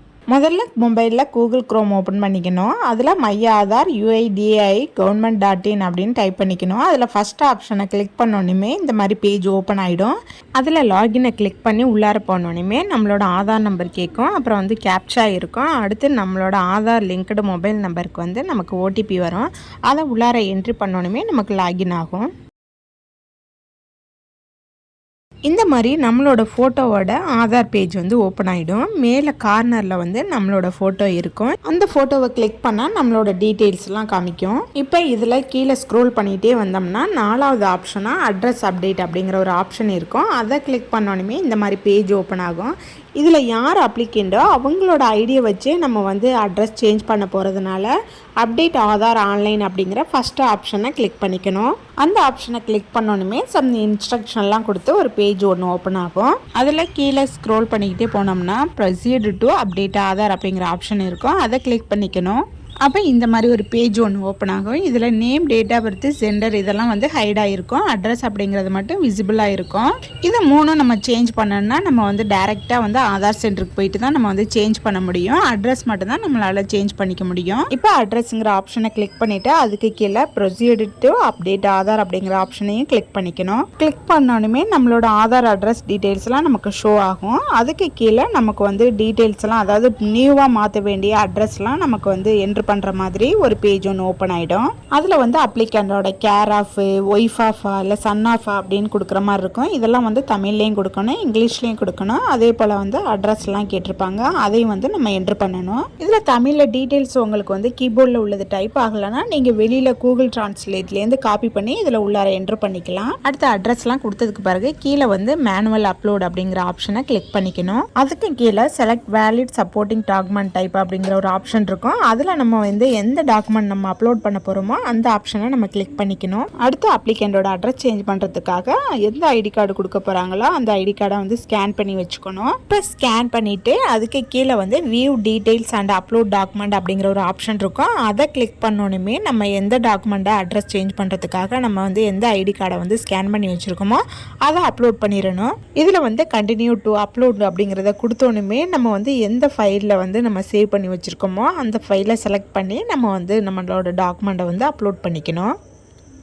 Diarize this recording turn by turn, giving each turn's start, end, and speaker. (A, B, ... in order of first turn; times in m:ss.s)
0:00.3-0:22.3 A
0:25.5-2:35.5 A